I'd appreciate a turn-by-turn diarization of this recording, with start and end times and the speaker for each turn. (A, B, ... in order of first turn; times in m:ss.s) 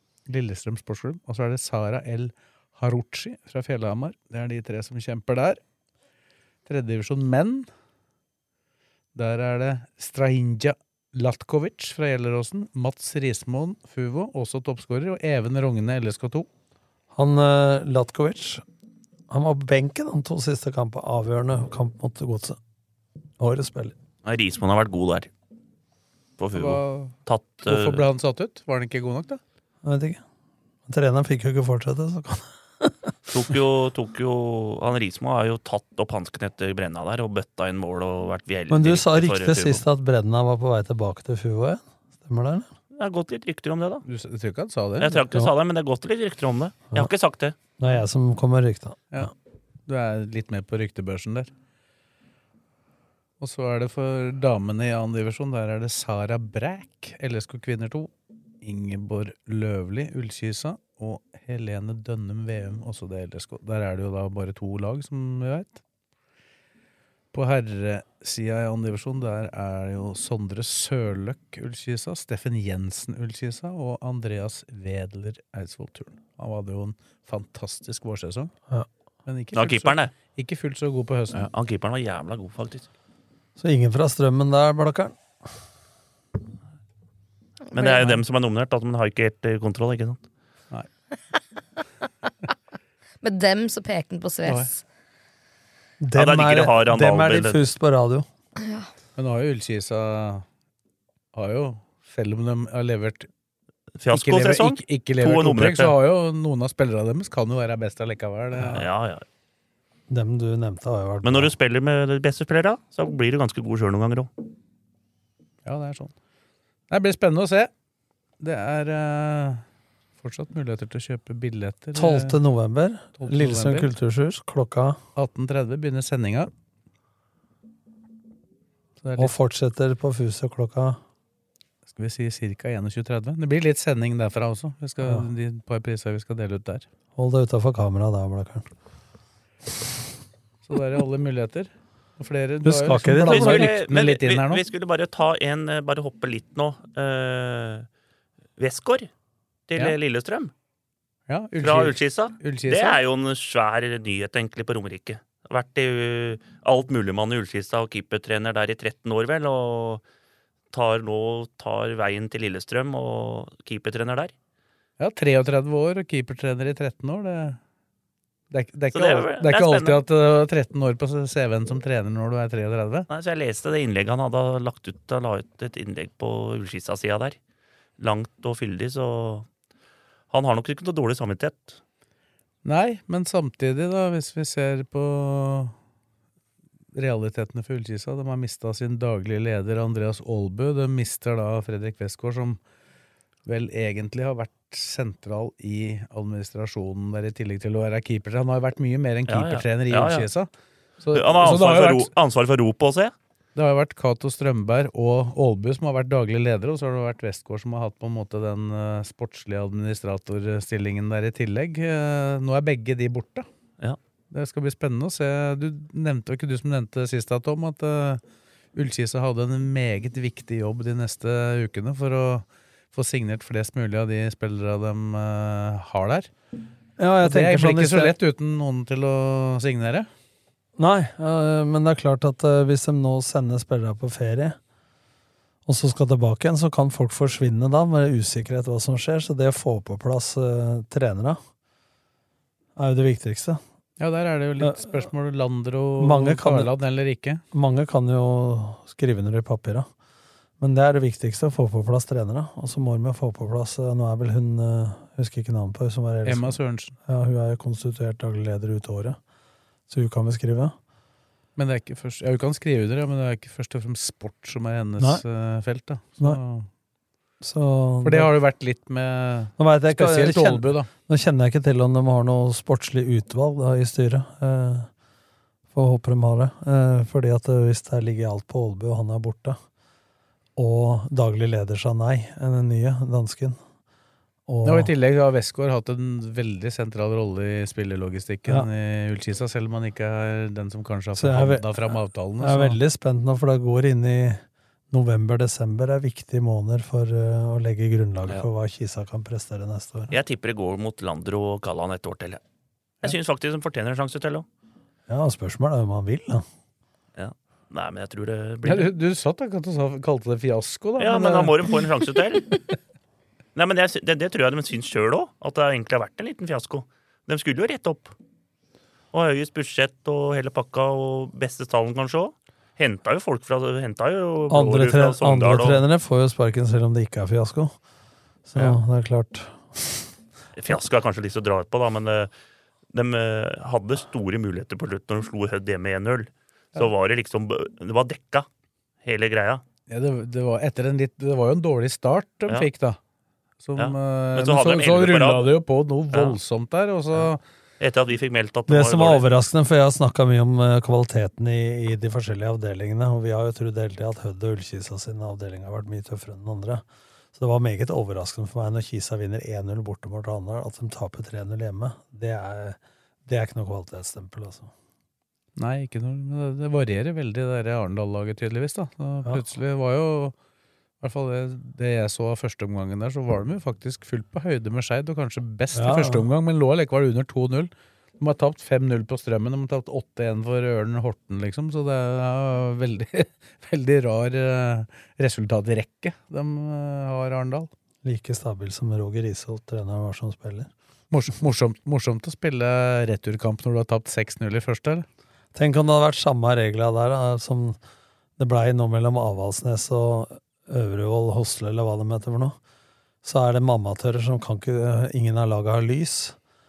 0:00.3-0:05.6 A
0:06.6-0:07.7 A
0:09.2-0:16.5 A
0:17.1-0:18.6 B
0:19.3-0:22.6 B
0:23.4-0:23.9 B
0:24.2-0:25.3 C
0:26.4-0:28.1 C
0:26.6-0:27.1 A
0:27.6-0:29.4 A
0:29.8-0:30.2 B
0:30.9-0:33.1 B
0:33.3-0:39.8 C
0:38.7-0:42.7 B
0:42.9-0:44.0 C
0:44.1-0:45.2 A
0:45.0-0:47.6 C
0:47.8-0:49.3 B
0:49.9-0:51.5 A
0:53.4-0:58.1 A
0:58.6-1:05.8 A
1:07.3-1:18.5 A
1:19.3-1:21.4 A
1:19.5-1:20.2 C
1:21.3-1:22.9 C
1:23.6-1:25.2 B
1:27.7-1:28.1 D
1:27.7-1:30.2 C
1:33.2-1:34.8 D
1:36.0-1:38.3 B
1:36.2-1:37.6 C
1:39.2-1:40.4 A
1:41.3-1:43.3 A
1:44.0-1:45.9 C
1:44.1-1:48.9 A
1:48.6-1:49.2 C
1:50.1-1:51.5 B
1:51.2-1:54.3 C
1:55.6-1:56.1 A
1:56.9-1:57.7 A
1:58.4-1:59.6 A
2:00.2-2:02.4 A
2:01.9-2:05.0 B
2:03.2-2:03.9 A
2:05.2-2:06.5 A
2:09.0-2:09.3 A
2:09.2-2:11.0 B
2:11.9-2:16.9 A
2:15.0-2:15.3 B
2:17.2-2:18.6 B
2:20.6-2:24.6 A
2:22.6-2:23.7 B
2:23.3-2:27.9 C
2:28.6-2:29.1 C
2:29.7-2:30.5 C
2:31.3-2:33.0 A
2:31.6-2:40.0 C
2:40.7-2:44.3 C
2:45.0-2:47.6 A
2:48.5-2:53.1 A
2:48.9-2:50.0 C
2:53.1-2:57.4 C
2:58.0-2:59.5 C
3:00.3-3:01.8 C
3:02.6-3:05.7 A
3:06.9-3:12.6 A
3:13.4-3:20.5 A
3:19.3-3:20.3 C
3:21.0-3:22.1 A
3:21.1-3:23.1 C
3:23.6-3:33.4 A
3:34.3-3:38.2 A
3:38.7-3:46.3 A
3:47.0-3:48.2 B
3:47.2-3:50.1 A
3:50.8-3:54.6 B
3:55.6-4:01.4 B
4:02.8-4:03.6 B
4:04.0-4:07.4 A
4:04.6-4:05.1 B
4:06.0-4:06.7 B
4:07.5-4:09.9 B
4:10.6-4:19.2 B
4:16.3-4:16.9 A
4:19.9-4:20.7 B
4:21.6-4:26.7 A
4:27.4-4:28.3 B
4:28.0-4:30.9 A
4:29.6-4:34.9 B
4:35.7-4:39.6 B
4:40.6-4:43.6 B
4:44.5-4:44.9 B
4:44.6-4:52.8 A
4:51.2-5:00.2 B
5:00.1-5:02.4 C
5:03.0-5:04.4 C
5:05.1-5:06.4 B
5:07.2-5:08.9 C
5:08.6-5:11.8 A
5:11.0-5:12.6 C
5:13.6-5:18.1 C
5:19.1-5:25.8 C
5:24.5-5:27.8 B
5:28.5-5:30.1 B
5:30.6-5:32.3 C
5:32.9-5:38.5 C
5:39.0-5:39.6 C
5:39.9-5:43.0 A
5:43.6-5:47.4 A
5:43.8-5:45.5 C
5:46.1-5:46.4 C
5:47.8-5:49.3 C
5:48.7-5:56.8 B
5:57.4-6:04.7 B
6:05.6-6:10.4 A
6:11.0-6:27.7 A
6:15.7-6:16.3 B
6:28.0-6:30.7 B
6:31.1-6:35.0 A
6:35.5-6:37.8 B
6:38.4-6:42.6 B
6:43.2-6:46.4 B